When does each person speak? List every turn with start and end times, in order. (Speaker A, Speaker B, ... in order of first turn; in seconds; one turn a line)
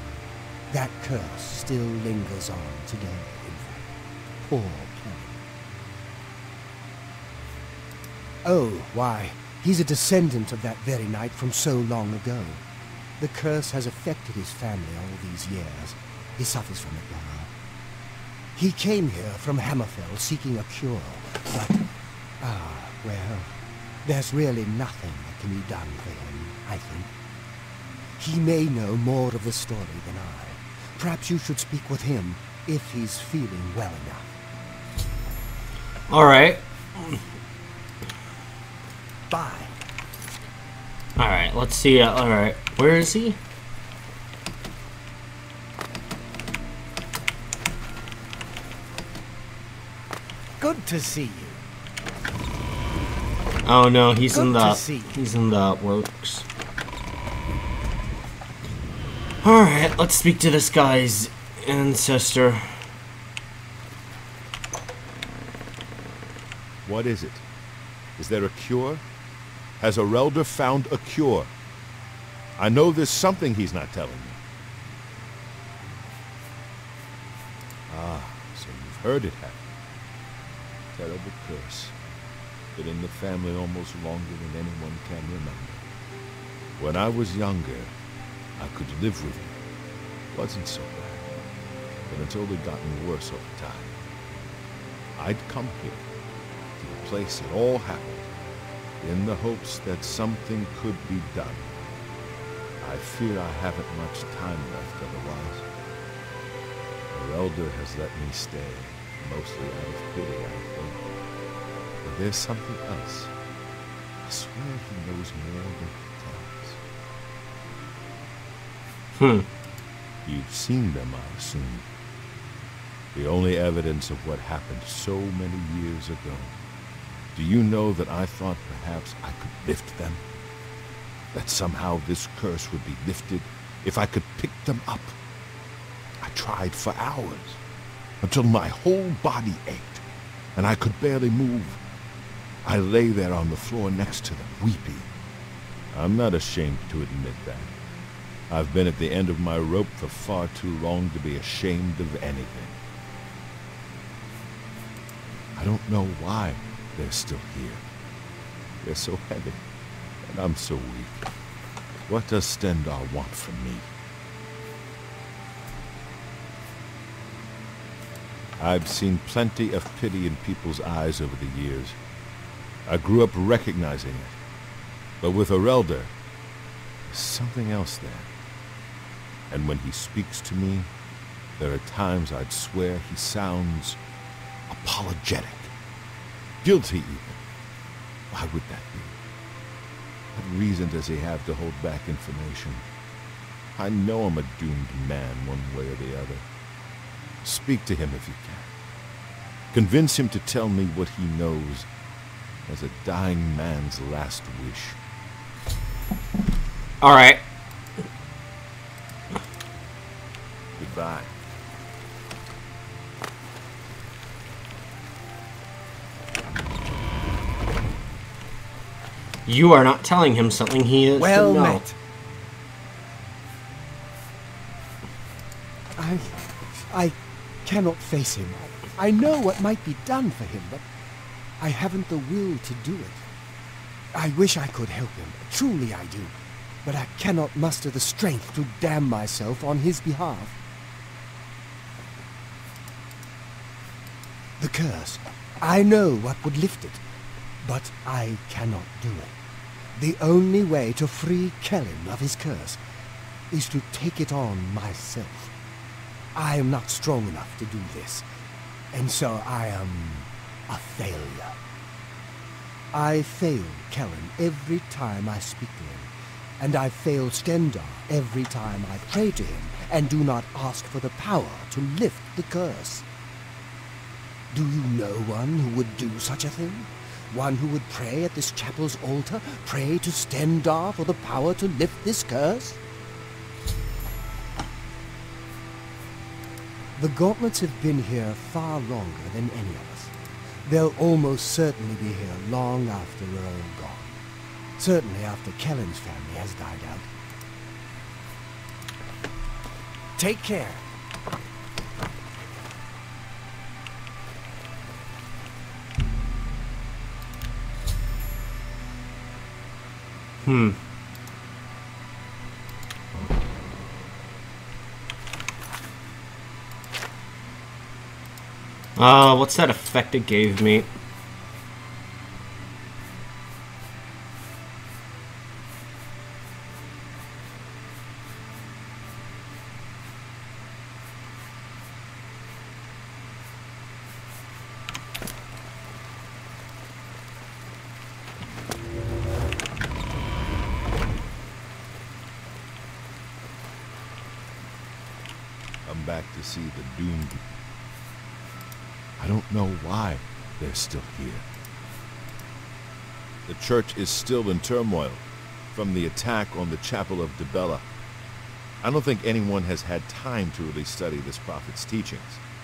Speaker A: 0.7-3.9
Speaker A: 4.5-5.4
Speaker A: 8.4-12.6
Speaker A: 13.2-17.5
Speaker A: 18.6-21.9
Speaker A: 22.4-23.5
Speaker A: 24.0-27.1
Speaker A: 28.2-34.3
Speaker B: 36.1-37.2
Speaker A: 39.3-39.7
Speaker B: 41.2-43.4
Speaker A: 50.6-51.6
Speaker B: 53.6-56.4
Speaker A: 54.3-55.2
Speaker B: 59.4-62.8
Speaker C: 66.8-67.4
Speaker C: 68.2-69.0
Speaker C: 69.8-71.5
Speaker C: 72.6-74.4
Speaker C: 77.9-79.6
Speaker C: 80.9-81.9
Speaker C: 82.7-85.8
Speaker C: 86.8-87.9
Speaker C: 88.6-89.5
Speaker C: 90.3-91.2
Speaker C: 92.1-93.9
Speaker C: 95.2-96.0
Speaker C: 96.8-98.3
Speaker C: 99.0-101.9
Speaker C: 102.8-105.7
Speaker C: 107.1-111.0
Speaker C: 112.0-113.3
Speaker C: 114.2-116.8
Speaker B: 119.2-119.5
Speaker C: 120.2-121.8
Speaker C: 123.1-126.5
Speaker C: 127.3-130.2
Speaker C: 131.3-135.2
Speaker C: 136.2-137.6
Speaker C: 138.2-140.0
Speaker C: 140.6-141.8
Speaker C: 142.6-145.1
Speaker C: 145.9-147.7
Speaker C: 148.5-152.8
Speaker C: 155.6-157.8
Speaker C: 158.8-159.6
Speaker C: 160.2-161.2
Speaker C: 162.1-163.9
Speaker C: 168.6-171.9
Speaker C: 172.9-174.4
Speaker C: 175.2-176.1
Speaker C: 177.1-178.3
Speaker C: 179.5-180.9
Speaker C: 181.6-184.0
Speaker C: 184.7-185.7
Speaker C: 186.6-187.4
Speaker C: 188.3-189.1
Speaker C: 190.3-192.8
Speaker C: 193.8-196.4
Speaker C: 197.4-198.7
Speaker C: 199.7-201.9
Speaker C: 202.7-205.0
Speaker B: 207.0-207.4
Speaker C: 210.8-211.3
Speaker B: 219.4-221.8
Speaker A: 221.2-221.9
Speaker A: 226.0-230.8
Speaker A: 231.6-233.2
Speaker A: 234.1-240.6
Speaker A: 244.6-247.0
Speaker A: 247.6-249.3
Speaker A: 249.9-252.8
Speaker A: 253.5-255.5
Speaker A: 256.4-258.2
Speaker A: 258.9-261.6
Speaker A: 262.9-273.1
Speaker A: 274.5-282.8
Speaker A: 287.0-290.1
Speaker A: 290.6-294.1
Speaker A: 294.8-297.1
Speaker A: 300.2-300.8
Speaker B: 310.4-310.8
Speaker B: 319.0-320.9
Speaker C: 345.9-347.4
Speaker C: 349.2-351.4
Speaker C: 353.4-355.2
Speaker C: 355.7-357.8
Speaker C: 358.8-362.4